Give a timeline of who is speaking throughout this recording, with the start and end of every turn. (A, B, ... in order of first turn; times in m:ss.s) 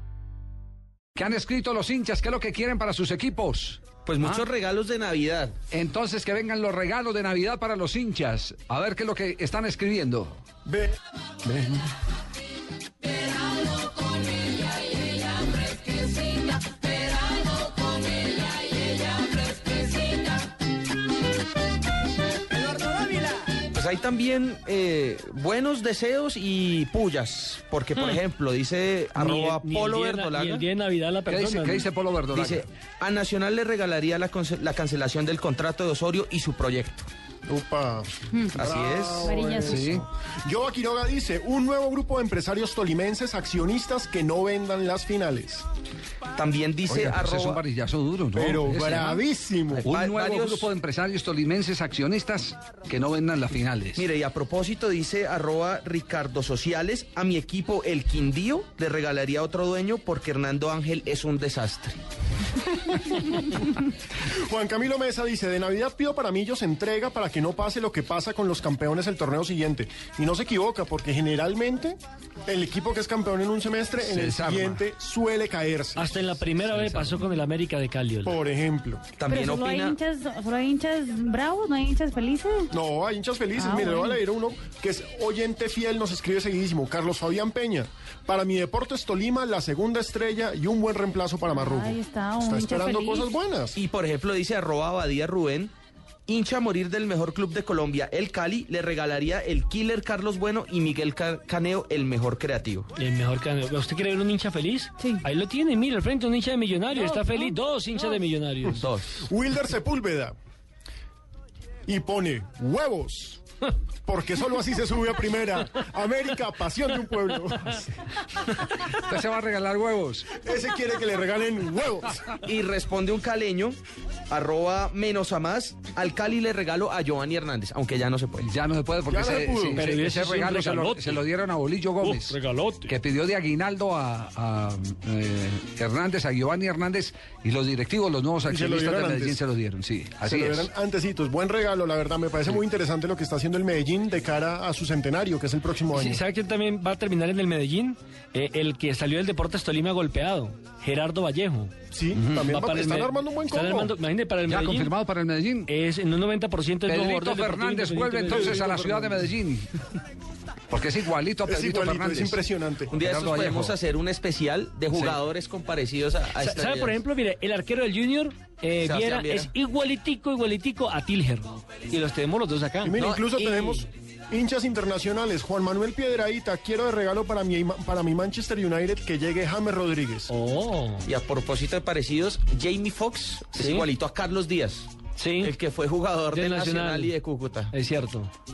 0:01.1-0:04.4 A
0:04.0-0:05.5 B
0:05.7-0:10.4 A
0:10.6-0:10.9 C
0:11.5-0:11.8 C
0:23.7-0:30.6 B
0:29.2-0:31.9 D
0:31.3-0:32.6 A
0:32.3-0:37.1 B
0:37.5-0:45.6 C
0:38.5-0:39.3 B
0:39.2-0:39.9 E
0:39.6-0:40.0 A
0:46.3-0:47.6 B
0:46.9-0:49.2 A
0:48.4-0:49.8 C
0:49.7-0:50.7 B
0:49.8-0:54.0 A
0:54.0-1:02.0 B
1:03.1-1:03.5 C
1:04.4-1:16.4 C
1:14.0-1:14.8 A
1:16.0-1:18.4 D
1:16.7-1:17.2 A
1:18.2-1:19.0 C
1:19.2-1:20.0 B
1:19.3-1:22.7 E
1:22.7-1:33.8 C
1:23.6-1:24.2 E
1:31.5-1:33.3 E
1:33.7-1:35.7 B
1:36.3-1:42.9 B
1:43.0-1:48.9 D
1:48.8-1:49.2 B
1:49.2-1:50.3 C
1:51.9-1:53.4 C
1:54.0-1:57.9 C
1:59.0-2:00.4 A
2:00.4-2:02.2 C
2:02.4-2:03.8 B
2:04.3-2:08.5 B
2:08.4-2:12.4 A
2:09.1-2:09.9 C
2:09.7-2:11.2 D
2:12.0-2:13.0 D
2:12.9-2:20.7 A
2:18.4-2:19.4 C
2:20.2-2:26.2 C
2:25.9-2:34.9 D
2:31.9-2:34.0 C
2:34.5-2:35.7 A
2:35.7-2:39.2 D
2:36.9-2:39.7 A
2:38.3-2:38.8 C
2:40.7-2:42.4 A
2:41.4-2:42.9 C
2:42.9-2:47.0 B
2:43.1-2:43.7 A
2:46.3-2:53.9 D
2:48.8-2:49.5 B
2:52.8-3:00.3 C
2:52.9-2:53.5 B
3:00.3-3:01.1 D
3:01.0-3:07.7 B
3:03.5-3:03.9 D
3:05.2-3:05.5 D
3:06.3-3:07.2 D
3:07.7-3:08.3 D